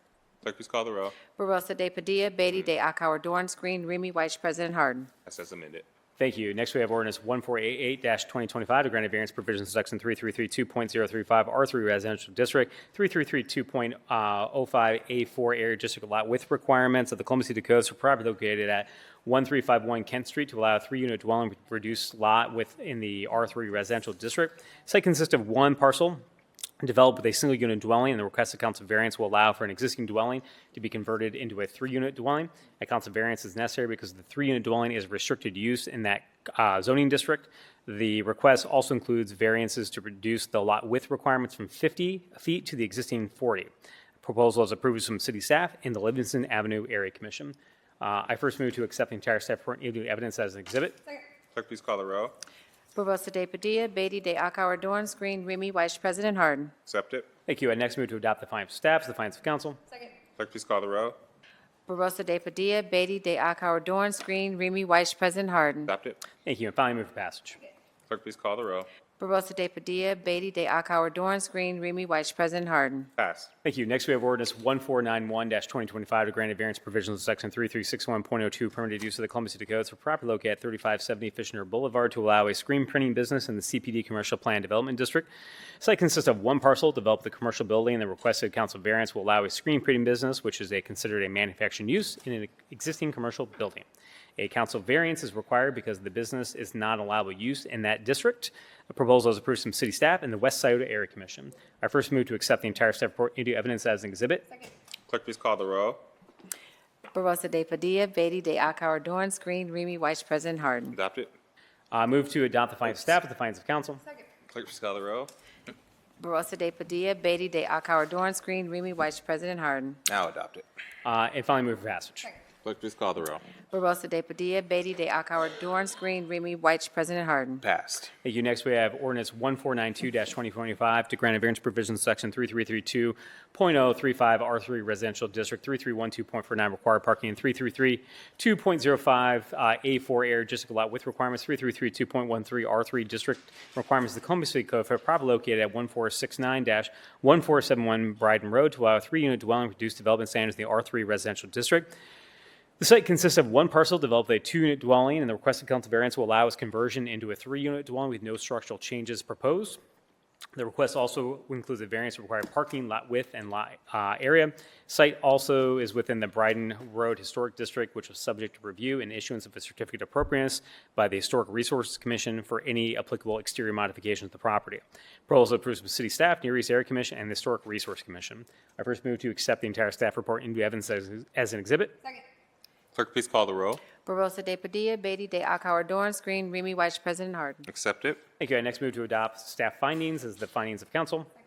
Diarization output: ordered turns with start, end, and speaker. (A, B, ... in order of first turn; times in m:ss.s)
0:00.4-0:01.2 A
0:01.4-0:05.1 B
0:05.2-0:05.8 A
0:06.2-0:26.2 C
0:26.8-0:43.7 C
0:44.2-0:51.0 C
0:51.5-0:52.4 A
0:52.9-0:56.7 B
0:56.8-0:57.3 A
0:57.5-0:59.8 C
1:00.4-1:01.2 A
1:01.9-1:05.9 B
1:05.9-1:06.2 A
1:06.4-1:07.6 C
1:08.1-1:08.9 A
1:09.2-1:13.1 B
1:13.2-1:13.5 A
1:13.6-1:25.3 C
1:25.8-1:44.5 C
1:45.1-1:46.0 A
1:47.1-1:51.0 B
1:50.9-1:51.3 A
1:51.9-1:54.0 C
1:54.5-1:55.3 A
1:56.2-2:00.0 B
2:00.1-2:00.6 A
2:01.0-2:02.3 C
2:02.6-2:03.4 A
2:03.7-2:07.6 B
2:07.6-2:08.1 A
2:08.2-2:31.9 C
2:32.8-2:39.8 C
2:40.6-3:02.0 C
3:02.9-3:03.8 A
3:04.0-3:07.6 B
3:07.6-3:08.2 A
3:08.4-3:11.3 C